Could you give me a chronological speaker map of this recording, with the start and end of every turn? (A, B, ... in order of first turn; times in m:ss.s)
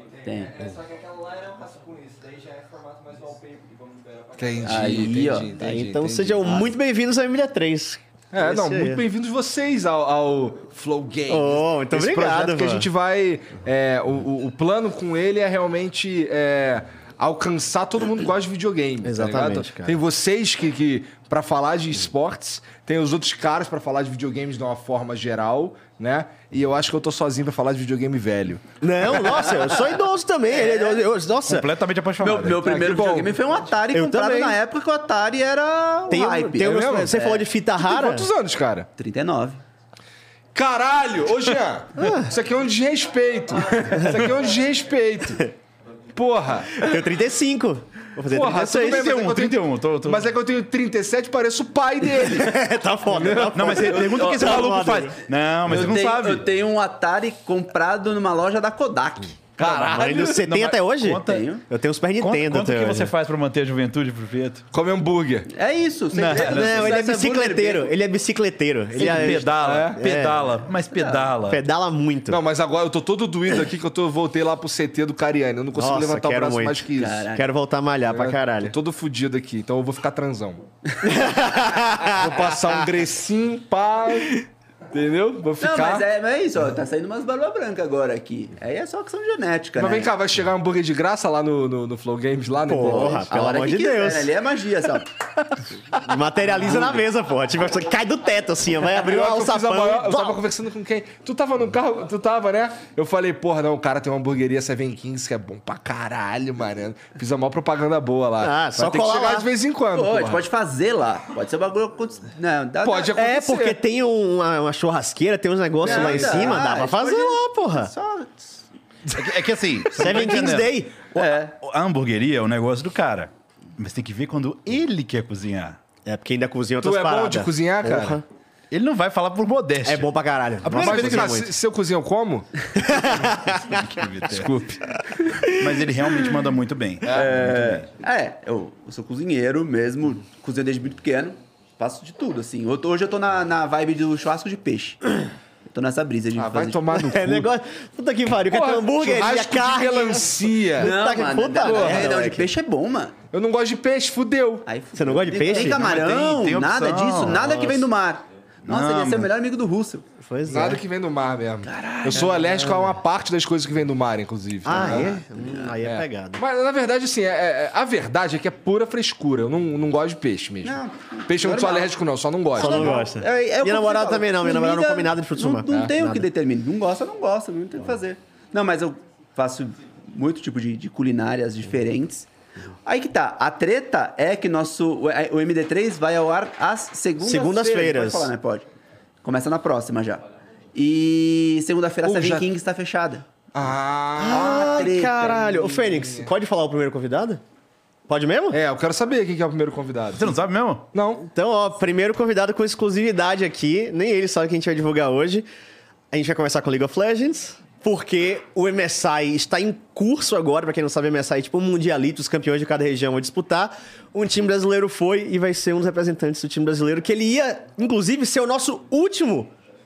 0:00.2-0:00.6 A
0:00.7-0:04.0 B
0:04.4-0:06.7 C
0:04.6-0:05.6 A
0:05.5-0:09.0 D
0:08.3-0:29.2 C
0:11.3-0:12.9 D
0:19.0-0:20.0 D
0:28.8-0:31.7 D
0:30.6-0:31.0 A
0:31.4-0:32.7 E
0:32.2-0:37.5 A
0:32.6-0:33.4 C
0:33.9-0:34.6 D
0:36.1-0:38.3 D
0:36.6-0:37.2 C
0:37.8-0:38.9 C
0:39.0-0:39.6 A
0:40.5-0:45.4 C
0:42.0-0:42.3 D
0:46.1-0:46.9 C
0:46.7-0:49.1 D
0:48.3-0:52.6 C
0:48.8-0:50.3 E
0:52.2-0:55.1 D
0:53.1-0:53.6 C
0:53.5-0:56.5 E
0:53.9-0:54.6 A
0:55.7-0:59.5 A
0:59.6-1:01.5 E
0:59.6-1:03.1 D
1:01.2-1:01.7 A
1:02.2-1:04.6 E
1:04.7-1:05.5 C
1:05.5-1:07.9 A
1:06.1-1:07.0 E
1:06.4-1:10.5 D
1:09.0-1:11.6 E
1:09.0-1:10.0 C
1:10.9-1:11.3 A
1:11.4-1:12.4 D
1:12.3-1:17.2 C
1:15.7-1:18.7 D
1:16.9-1:17.5 A
1:18.1-1:20.6 C
1:21.0-1:22.4 D
1:22.0-1:26.1 C
1:25.6-1:30.1 A
1:29.8-1:33.3 C
1:32.7-1:34.3 D
1:33.0-1:35.1 A
1:36.0-1:40.4 D
1:36.6-1:36.9 C
1:39.0-1:50.4 C
1:48.4-1:49.5 D
1:49.9-1:53.2 A
1:52.8-1:53.8 C
1:53.1-1:57.9 D
1:55.8-1:58.6 A
1:55.8-1:56.6 C
1:59.1-2:05.8 E
2:00.0-2:01.1 D
2:01.1-2:01.5 A
2:06.0-2:08.2 D
2:06.8-2:08.2 C
2:08.7-2:10.1 E
2:09.8-2:11.5 D
2:10.6-2:11.4 E
2:10.7-2:12.5 C
2:12.8-2:13.6 D
2:13.6-2:14.7 E
2:14.3-2:14.8 C
2:15.4-2:17.9 E
2:17.0-2:17.3 C
2:17.1-2:25.1 A
2:25.7-2:26.9 A
2:26.4-2:27.5 C
2:27.0-2:32.5 D
2:28.5-2:30.9 C
2:30.8-2:33.1 A
2:31.6-2:32.1 C
2:33.3-2:34.7 C
2:34.6-2:40.0 A
2:34.9-2:35.8 D
2:35.5-2:37.8 E
2:38.6-2:39.3 E
2:40.2-2:40.8 D
2:40.4-2:45.2 C
2:41.6-2:42.5 A
2:42.3-2:42.9 D
2:44.6-2:46.4 D
2:44.8-2:45.7 A
2:45.8-2:53.0 C
2:50.6-2:51.9 A
2:52.6-3:02.3 A
2:52.6-2:56.2 D
3:02.8-3:08.7 A
3:07.2-3:08.3 D
3:09.2-3:13.2 A
3:12.0-3:12.5 C
3:13.5-3:16.3 C
3:14.2-3:17.4 D
3:14.3-3:15.5 A
3:18.1-3:18.6 D
3:18.5-3:20.4 C
3:20.1-3:20.9 E
3:20.9-3:21.2 C
3:21.2-3:25.5 D
3:26.1-3:39.5 D